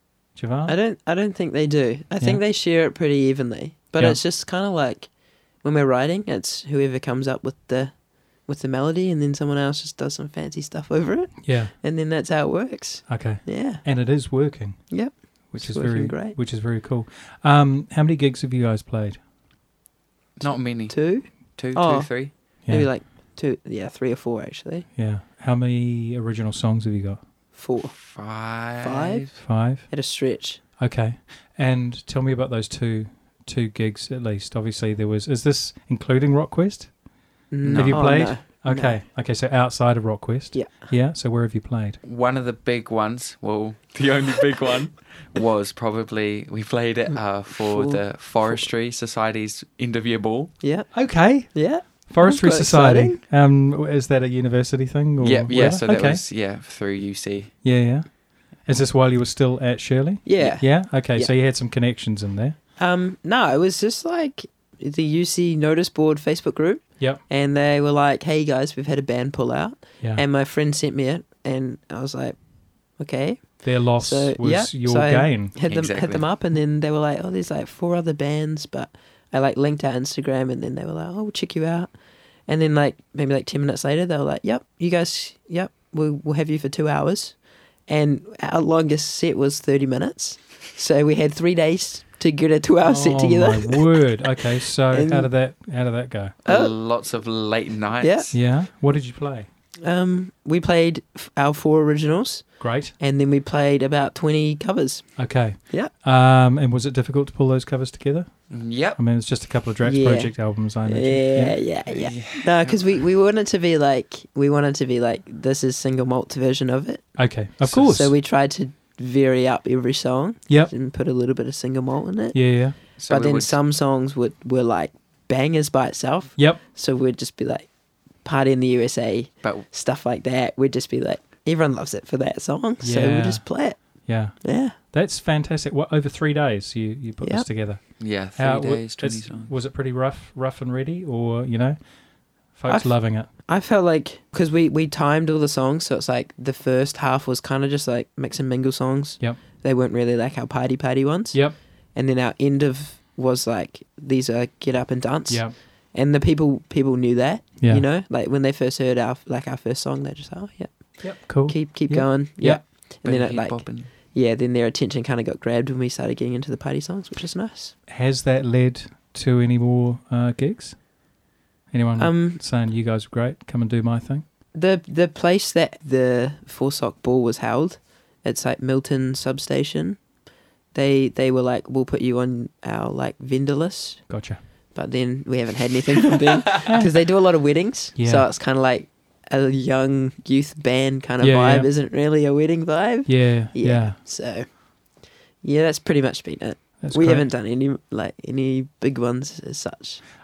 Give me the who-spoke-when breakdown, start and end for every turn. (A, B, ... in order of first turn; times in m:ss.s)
0:00.4-0:00.7 A
0:00.7-0:13.8 B
0:11.4-0:11.7 A
0:13.1-0:19.2 A
0:14.9-0:16.4 B
0:20.4-0:22.3 C
0:20.9-0:24.9 B
0:25.0-0:27.2 A
0:27.6-0:27.9 B
0:27.8-0:29.4 C
0:28.8-0:30.6 B
0:29.4-0:29.9 A
0:30.8-0:36.9 A
0:37.5-0:39.0 B
0:37.6-0:38.2 C
0:37.7-0:42.0 A
0:42.0-0:50.5 C
0:47.6-0:48.7 B
0:50.6-0:53.2 B
0:50.9-0:56.2 A
0:55.2-0:57.5 C
0:57.6-1:02.6 A
1:00.2-1:01.3 B
1:02.8-1:12.4 B
1:13.0-1:21.9 B
1:13.6-1:15.5 A
1:15.6-1:16.3 C
1:22.5-1:34.1 B
1:32.8-1:36.3 A
1:34.9-1:35.3 B
1:36.4-1:38.3 C
1:36.5-1:36.8 B
1:38.0-1:38.3 B
1:38.3-1:39.5 A
1:39.8-1:45.9 B
1:42.6-1:42.9 A
1:45.2-1:51.6 A
1:48.5-1:49.0 C
1:49.8-2:07.7 B
1:51.9-1:53.0 C
1:57.2-1:58.1 A
2:02.3-2:02.8 A
2:03.0-2:03.6 C
2:08.2-2:14.8 B
2:12.8-2:21.8 A
2:17.2-2:17.5 B
2:18.0-2:19.6 C
2:22.5-2:23.3 A
2:22.7-2:47.8 B
2:31.3-2:31.6 A
2:35.3-2:35.6 A
2:41.0-2:42.7 A
2:43.0-2:43.9 C
2:47.9-2:50.8 A
2:51.7-2:54.2 A
2:52.0-2:52.4 B
2:54.5-3:00.0 B
3:00.7-3:04.1 B
3:04.1-3:04.4 A
3:04.7-3:14.7 B
3:06.6-3:06.9 A
3:08.0-3:08.3 A
3:11.2-3:11.7 A
3:13.1-3:14.0 A
3:15.4-3:20.0 B
3:16.8-3:17.3 A